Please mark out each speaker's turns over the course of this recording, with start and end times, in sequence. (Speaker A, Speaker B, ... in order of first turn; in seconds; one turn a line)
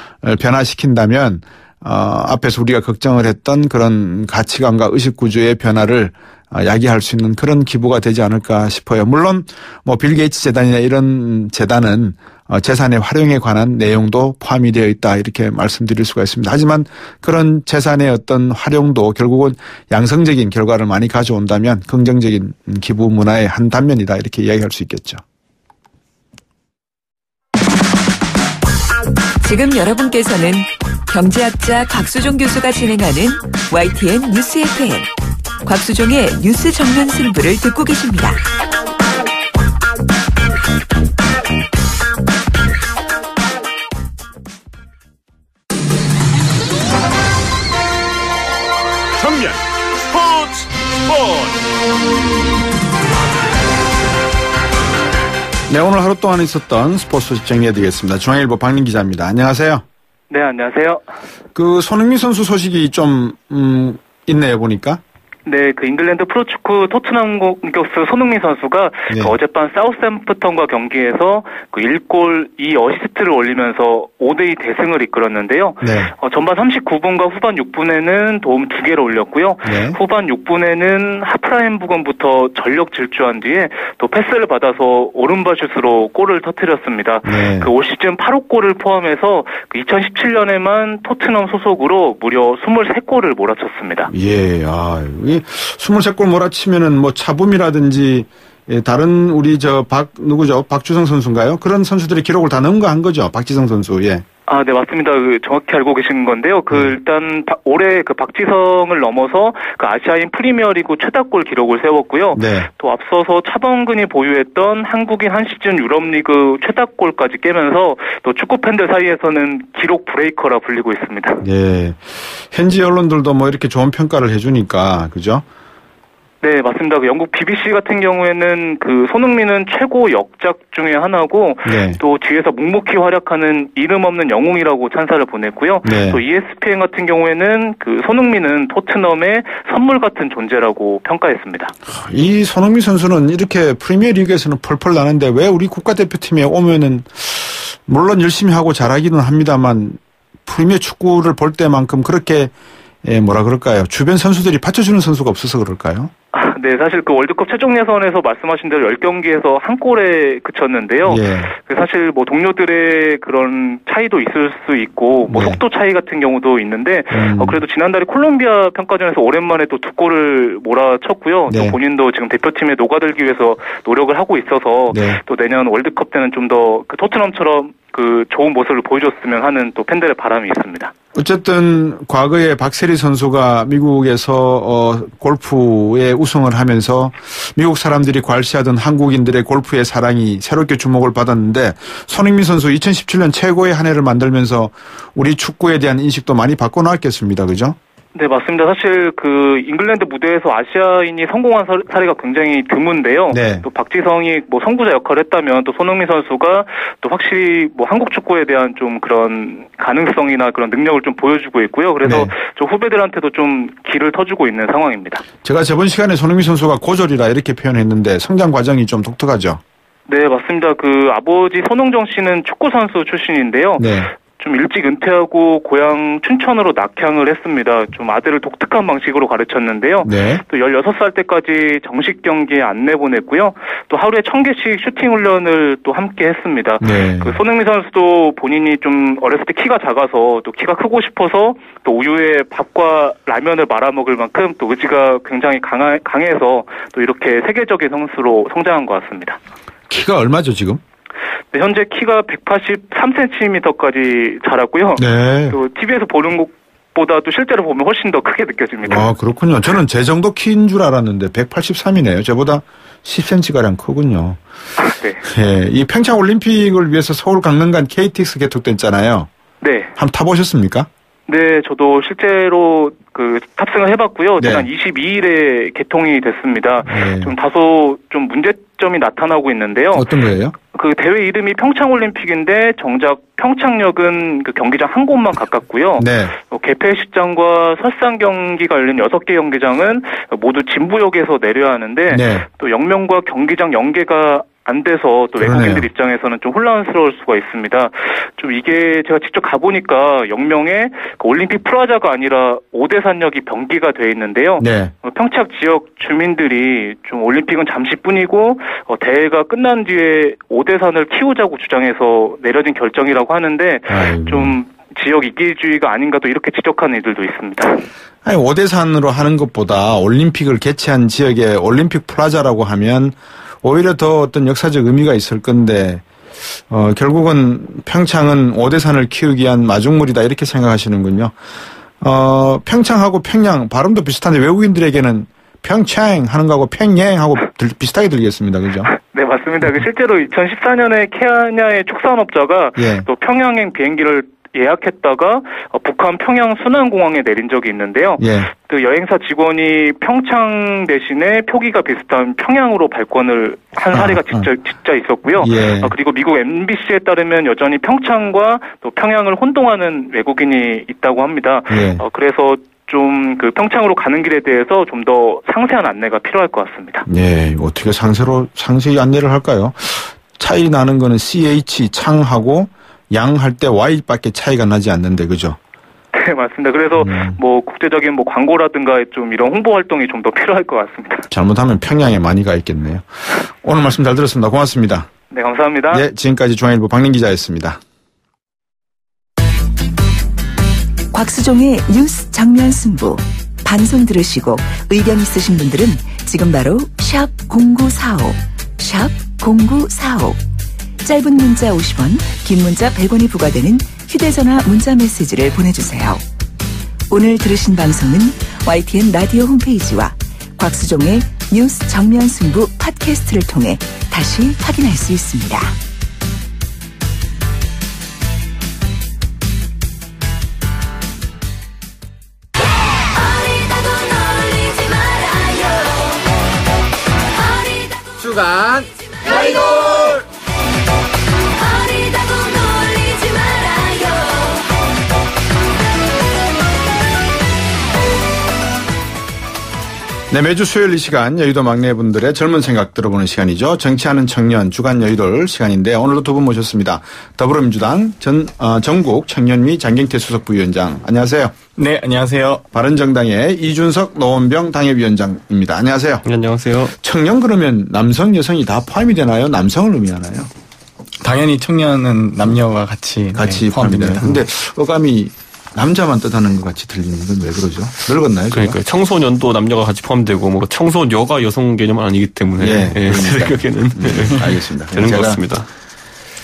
Speaker A: 0.2-25.2
Speaker B: 29.4-35.1
Speaker B: 35.6-38.4
Speaker C: 49.2-51.6
Speaker A: 55.7-59.8
Speaker D: 60.3-61.0
Speaker A: 61.5-65.0
Speaker D: 65.5-94.1
Speaker A: 69.1-69.4
Speaker A: 75.8-76.1
Speaker A: 79.6-80.0
Speaker A: 87.2-87.7
Speaker A: 94.1-104.2
Speaker D: 104.5-121.4
Speaker A: 112.3-112.7
Speaker A: 121.4-125.4
Speaker D: 126.4-141.7
Speaker A: 131.7-132.0
Speaker A: 135.8-136.2
Speaker A: 141.9-152.5
Speaker A: 153.0-156.1
Speaker D: 156.3-180.9
Speaker A: 161.1-161.5
Speaker A: 165.3-165.6
Speaker A: 167.1-167.6
Speaker A: 171.5-171.8
Speaker A: 174.9-175.2
Speaker A: 181.1-197.8
Speaker D: 198.2-215.2
Speaker A: 203.3-203.7
Speaker A: 212.0-212.3
Speaker A: 215.4-219.6
Speaker D: 220.1-249.4
Speaker A: 223.8-224.1
Speaker A: 230.0-230.4
Speaker A: 236.8-237.4
Speaker A: 249.9-250.8
Speaker D: 251.5-259.1
Speaker A: 255.0-255.6
Speaker A: 258.9-264.4
Speaker D: 264.8-265.2
Speaker A: 265.2-269.3
Speaker D: 269.6-269.9
Speaker A: 270.0-270.9
Speaker D: 271.3-280.1
Speaker A: 274.4-274.7
Speaker A: 276.9-277.3
Speaker A: 279.9-280.6
Speaker D: 280.7-317.9
Speaker A: 286.0-286.4
Speaker A: 292.1-292.5
Speaker A: 295.4-295.9
Speaker A: 304.6-304.9
Speaker A: 313.9-314.6
Speaker A: 318.2-326.0
Speaker A: 326.7-331.3
Speaker A: 332.0-338.9
Speaker D: 338.9-367.1
Speaker A: 342.8-343.1
Speaker A: 348.2-348.5
Speaker A: 353.9-354.5
Speaker A: 355.4-355.9
Speaker A: 361.7-362.0
Speaker A: 367.1-375.6
Speaker D: 376.1-381.3
Speaker A: 376.9-377.4
Speaker A: 381.3-383.1
Speaker A: 383.6-385.1
Speaker D: 385.3-386.0
Speaker A: 385.9-387.8
Speaker B: 391.1-400.4
Speaker B: 401.0-406.2
Speaker B: 407.1-415.8
Speaker B: 424.0-425.7
Speaker B: 429.4-430.0
Speaker B: 432.3-432.7
Speaker B: 433.3-434.1
Speaker A: 440.3-451.5
Speaker E: 451.8-452.6
Speaker A: 452.7-456.2
Speaker F: 456.2-456.9
Speaker A: 457.0-460.5
Speaker E: 461.2-464.4
Speaker A: 463.4-468.8
Speaker F: 468.5-475.7
Speaker A: 472.6-475.4